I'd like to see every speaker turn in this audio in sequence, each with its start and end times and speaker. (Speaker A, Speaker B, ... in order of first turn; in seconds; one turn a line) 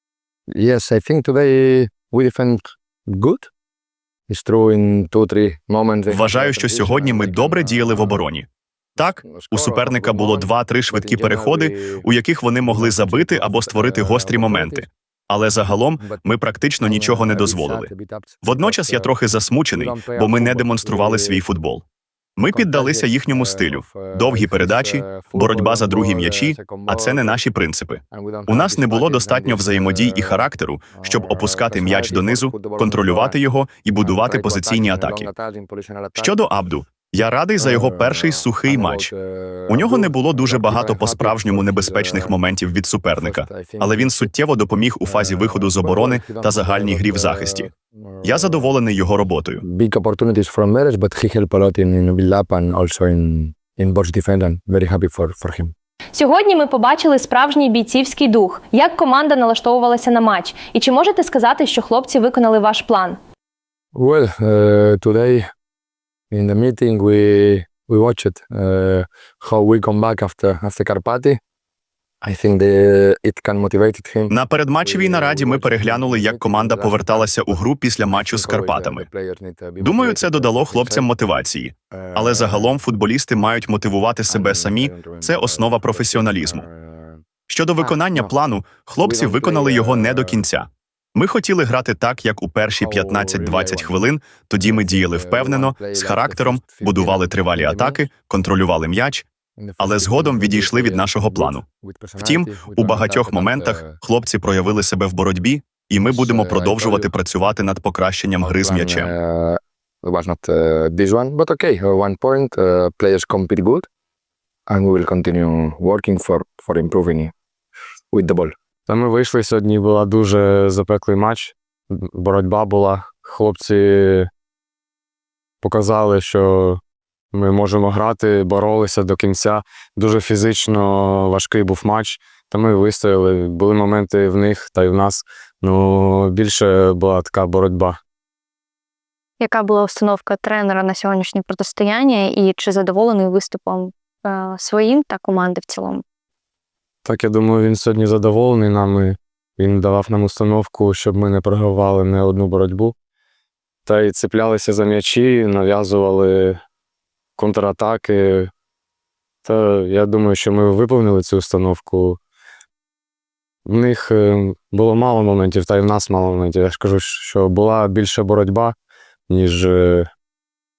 Speaker A: 0.5-3.5
Speaker A: 4.3-8.2
Speaker B: 6.1-8.4
Speaker B: 9.0-17.9
Speaker A: 9.0-12.0
Speaker A: 12.6-14.9
Speaker A: 16.0-16.2
Speaker A: 16.8-19.1
Speaker B: 18.4-21.8
Speaker A: 19.7-21.4
Speaker B: 22.4-35.3
Speaker A: 22.5-27.4
Speaker A: 28.1-33.4
Speaker A: 34.0-36.4
Speaker B: 36.1-39.1
Speaker A: 37.6-42.4
Speaker B: 39.7-47.7
Speaker A: 43.1-44.3
Speaker A: 45.0-48.7
Speaker B: 48.2-49.6
Speaker A: 49.6-55.7
Speaker C: 56.1-63.2
Speaker A: 63.9-65.4
Speaker A: 66.3-71.4
Speaker A: 72.2-81.4
Speaker B: 74.3-79.1
Speaker B: 79.8-86.6
Speaker A: 81.9-82.7
Speaker A: 84.3-87.2
Speaker B: 87.5-99.2
Speaker A: 87.8-88.3
Speaker A: 89.0-90.4
Speaker A: 92.7-94.0
Speaker A: 94.6-98.0
Speaker A: 99.6-104.0
Speaker B: 99.8-101.6
Speaker B: 102.2-109.1
Speaker A: 106.0-107.1
Speaker A: 108.4-113.9
Speaker A: 114.7-117.3
Speaker A: 118.1-118.5
Speaker D: 118.9-124.3
Speaker D: 125.6-126.8
Speaker D: 127.3-138.0
Speaker E: 139.4-146.0
Speaker D: 147.0-152.9
Speaker D: 153.8-156.6
Speaker D: 157.4-158.5
Speaker D: 159.4-162.2
Speaker D: 163.7-168.7
Speaker D: 169.3-170.1